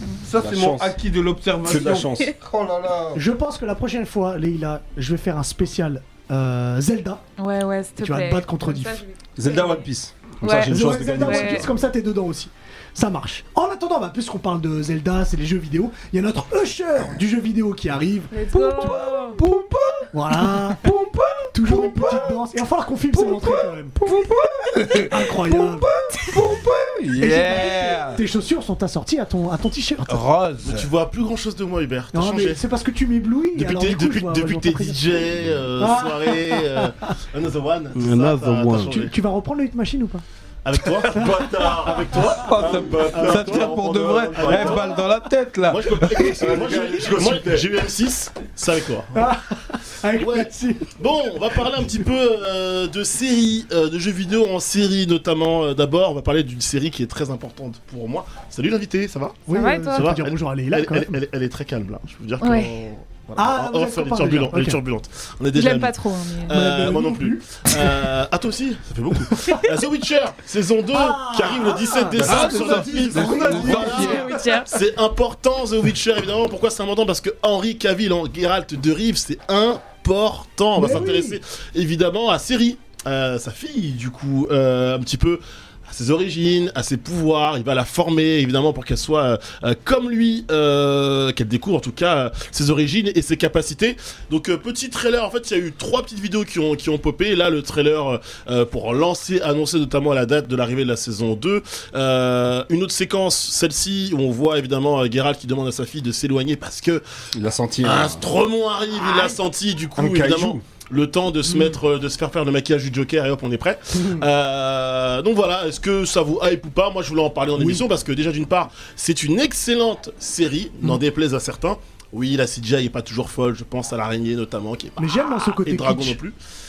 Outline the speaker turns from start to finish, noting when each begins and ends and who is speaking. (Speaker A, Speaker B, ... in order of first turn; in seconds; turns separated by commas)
Speaker A: 0.2-3.2, Speaker B: 0.4-1.0, Speaker B: 1.6-2.3, Speaker C: 3.1-7.2, Speaker D: 7.4-9.9, Speaker C: 8.0-9.0, Speaker B: 9.4-11.7, Speaker D: 10.4-11.7, Speaker C: 10.7-19.0, Speaker D: 18.3-19.4, Speaker A: 18.5-22.4, Speaker C: 20.1-20.8, Speaker C: 21.5-24.0, Speaker A: 23.1-28.2, Speaker C: 25.1-25.9, Speaker C: 27.2-30.2, Speaker A: 30.1-30.9, Speaker E: 30.6-32.6, Speaker C: 32.1-35.0, Speaker E: 33.5-39.1, Speaker C: 35.8-37.1, Speaker A: 38.0-38.9, Speaker C: 38.9-40.2, Speaker E: 40.6-45.0, Speaker B: 40.9-45.0, Speaker C: 41.1-41.7, Speaker A: 42.3-46.4, Speaker E: 45.7-49.2, Speaker B: 46.1-47.7, Speaker C: 49.1-51.0, Speaker E: 50.2-107.0, Speaker C: 59.5-61.2, Speaker D: 59.5-60.1, Speaker D: 62.4-62.8, Speaker C: 63.4-64.8, Speaker D: 65.5-66.6, Speaker C: 66.5-68.1, Speaker C: 70.9-74.3, Speaker B: 72.2-73.1, Speaker A: 72.2-74.4, Speaker D: 73.9-74.8, Speaker C: 80.8-81.4, Speaker B: 107.3-108.2, Speaker E: 107.8-126.3, Speaker B: 110.0-110.6, Speaker C: 114.0-114.2, Speaker C: 117.6-117.8, Speaker C: 125.0-126.2